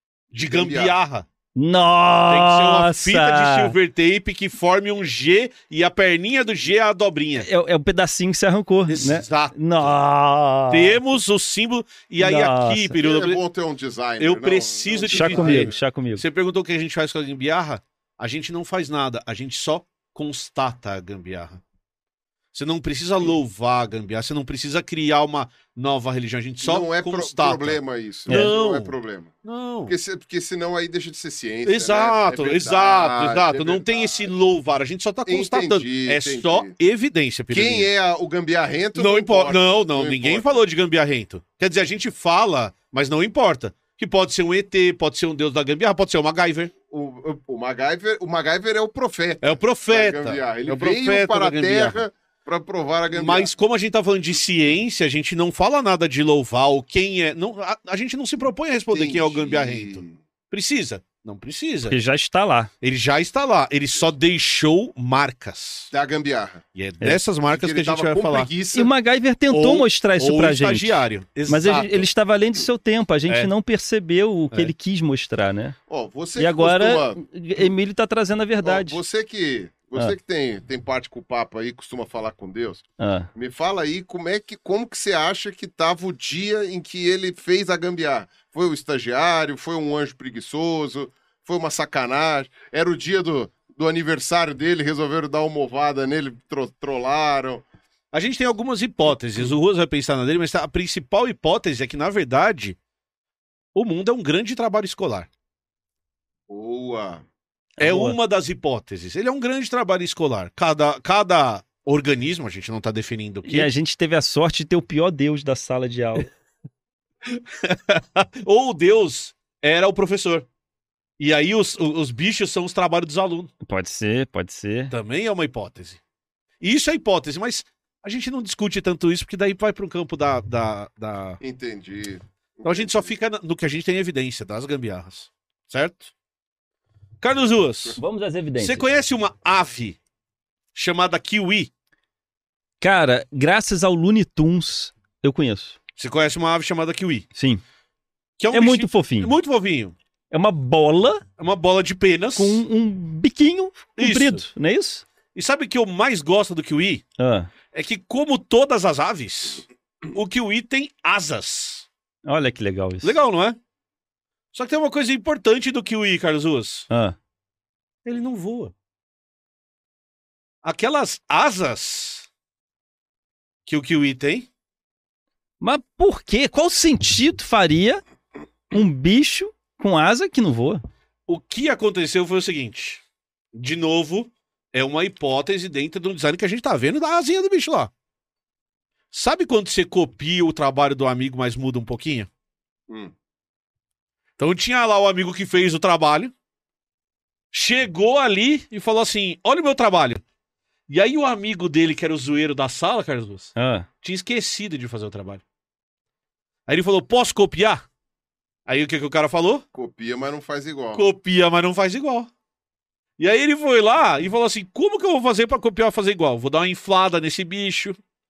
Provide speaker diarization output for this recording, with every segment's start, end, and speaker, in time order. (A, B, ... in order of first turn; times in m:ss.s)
0:00.3-0:01.2 A
0:00.5-0:01.0 B
0:01.6-0:03.8 C
0:02.3-0:07.5 A
0:07.4-0:11.0 C
0:08.9-0:09.9 A
0:10.7-0:13.4 A
0:12.2-0:13.0 C
0:13.0-0:15.8 B
0:14.2-0:21.6 A
0:15.1-0:16.2 C
0:22.5-0:28.9 A
0:26.6-0:29.3 B
0:29.4-0:30.0 A
0:29.9-0:34.3 B
0:31.6-0:37.9 A
0:35.2-0:36.8 B
0:37.5-0:40.6 B
0:39.0-0:46.7 A
0:46.9-0:53.5 B
0:49.4-0:52.0 A
0:53.1-1:02.0 A
0:58.8-1:00.2 B
1:01.9-1:02.7 C
1:02.8-1:05.9 A
1:05.9-1:06.6 B
1:06.8-1:08.5 A
1:07.5-1:08.9 B
1:08.7-1:15.8 C
1:09.5-1:12.1 A
1:15.9-1:17.2 B
1:16.4-1:19.0 C
1:18.6-1:37.6 B
1:23.0-1:23.3 C
1:38.1-1:42.8 A
1:43.8-1:45.3 A
1:46.5-1:47.2 B
1:47.8-1:48.2 C
1:47.8-1:53.7 A
1:53.5-1:56.3 C
1:57.2-2:00.4 A
2:01.2-2:03.5 A
2:03.6-2:04.9 C
2:04.9-2:06.0 A
2:06.6-2:11.4 A
2:11.4-2:13.1 B
2:12.6-2:16.1 A
2:17.2-2:18.0 A
2:18.0-2:18.9 C
2:18.6-2:20.0 A
2:20.7-2:21.7 A
2:22.8-2:25.8 C
2:26.0-2:27.3 A
2:27.3-2:27.6 C
2:28.4-2:29.9 A
2:28.5-2:29.3 C
2:30.3-2:31.2 C
2:31.4-2:32.6 A
2:32.4-2:35.0 C
2:34.0-2:34.4 A
2:35.3-2:37.0 A
2:37.2-2:37.5 C
2:37.7-2:41.9 A
2:42.2-2:43.2 C
2:43.0-2:43.6 A
2:44.5-2:46.9 A
2:46.9-2:47.2 C
2:48.0-2:48.7 A
2:50.6-2:52.3 A
2:53.7-2:54.5 A
2:55.6-2:58.0 C
2:58.7-3:00.8 C
3:01.3-3:03.0 A
3:03.5-3:07.9 A
3:09.1-3:12.3 A
3:14.4-3:16.3 A
3:17.5-3:20.2 A
3:20.9-3:25.4 A
3:23.6-3:23.9 C
3:26.7-3:27.8 A
3:28.7-3:29.6 A
3:29.7-3:31.0 B
3:30.9-3:32.3 A
3:33.2-3:38.0 A